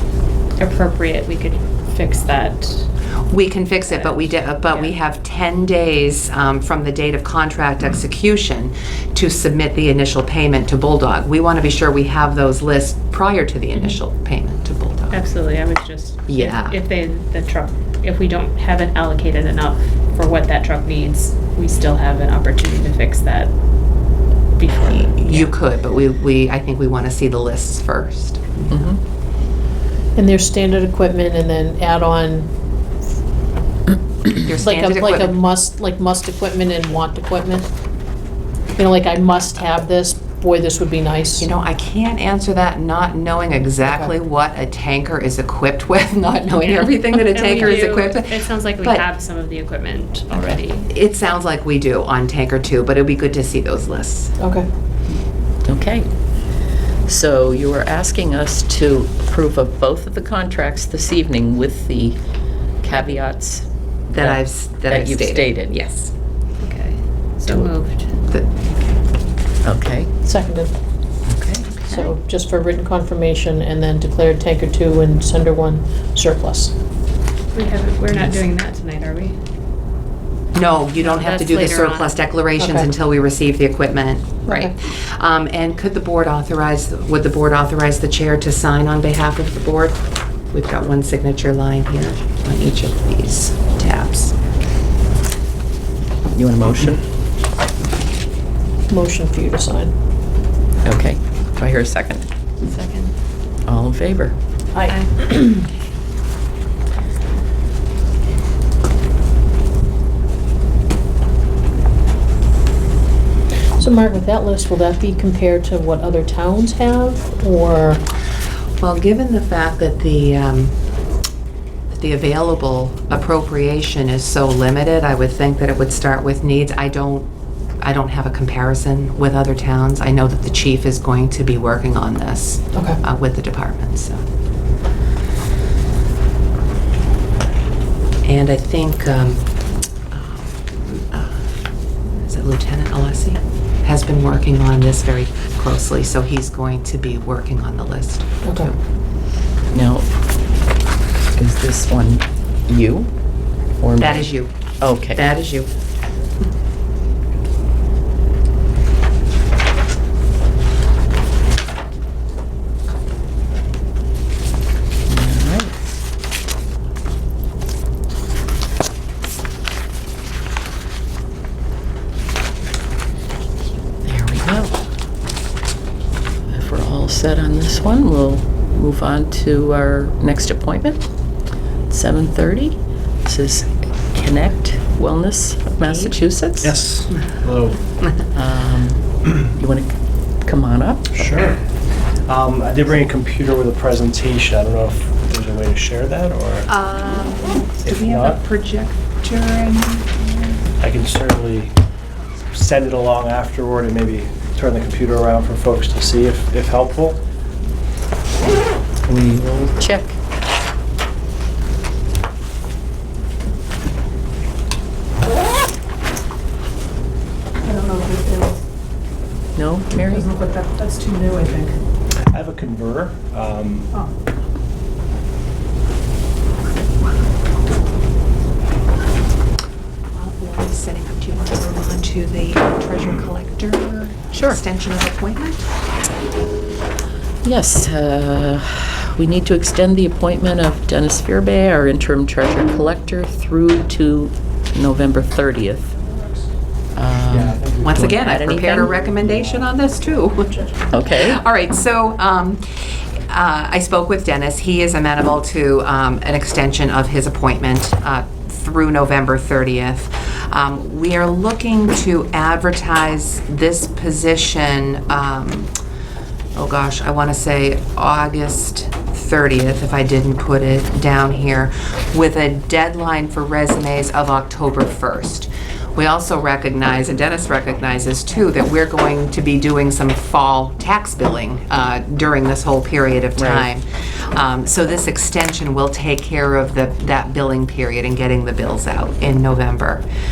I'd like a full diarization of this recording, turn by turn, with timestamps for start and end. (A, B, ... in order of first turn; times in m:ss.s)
0:00.6-0:02.9 A
0:03.3-0:15.2 B
0:03.9-0:05.0 A
0:15.1-0:23.5 A
0:16.3-0:16.8 B
0:24.6-0:25.5 A
0:24.9-0:29.0 B
0:28.7-0:29.0 C
0:30.2-0:32.5 D
0:34.3-0:35.4 B
0:34.6-0:37.7 D
0:38.8-0:41.5 D
0:41.4-0:49.0 B
0:43.8-0:44.1 D
0:46.7-0:50.9 A
0:50.3-0:54.4 B
0:54.4-0:54.7 D
0:55.7-0:56.1 C
0:57.1-1:02.2 C
1:02.8-1:03.7 C
1:04.1-1:06.1 B
1:04.2-1:05.8 C
1:06.6-1:08.1 A
1:08.2-1:08.5 B
1:09.6-1:10.1 C
1:10.2-1:10.7 D
1:11.3-1:12.2 C
1:11.9-1:16.7 D
1:17.5-1:19.4 A
1:20.5-1:34.4 B
1:21.0-1:22.2 A
1:22.6-1:22.9 D
1:36.3-1:37.0 C
1:38.9-1:39.9 D
1:40.8-1:42.3 C
1:42.6-1:43.1 A
1:43.7-1:44.4 C
1:44.8-1:45.7 D
1:44.9-1:45.2 A
1:53.8-1:58.0 D
1:58.8-2:00.8 B
2:01.9-2:14.2 B
2:12.7-2:13.0 D
2:18.2-2:19.4 B
2:20.1-2:21.4 B
2:22.2-2:28.7 B
2:28.4-2:28.8 D
2:29.7-2:30.1 C
2:31.3-2:33.1 C
2:33.8-2:35.2 C
2:34.0-2:35.7 B
2:45.1-2:45.7 C
2:54.0-2:54.8 C
2:56.5-3:01.1 C
3:01.9-3:06.7 C
3:05.9-3:06.2 B
3:06.6-3:07.8 E
3:08.3-3:11.2 C
3:11.1-3:11.7 E
3:12.2-3:16.7 E
3:16.7-3:20.6 B
3:17.8-3:18.4 E
3:20.8-3:21.8 E
3:22.5-3:27.2 E
3:29.1-3:30.2 C
3:37.7-3:38.4 F
3:39.6-3:40.3 C
3:40.3-3:41.7 F
3:42.2-3:43.9 E
3:50.1-3:55.7 B
3:54.4-3:54.6 C
3:57.4-4:05.9 C
4:07.0-4:08.9 C
4:07.2-4:10.6 E
4:07.8-4:25.7 B
4:10.9-4:11.4 C
4:26.6-4:50.0 B
4:43.4-4:43.7 C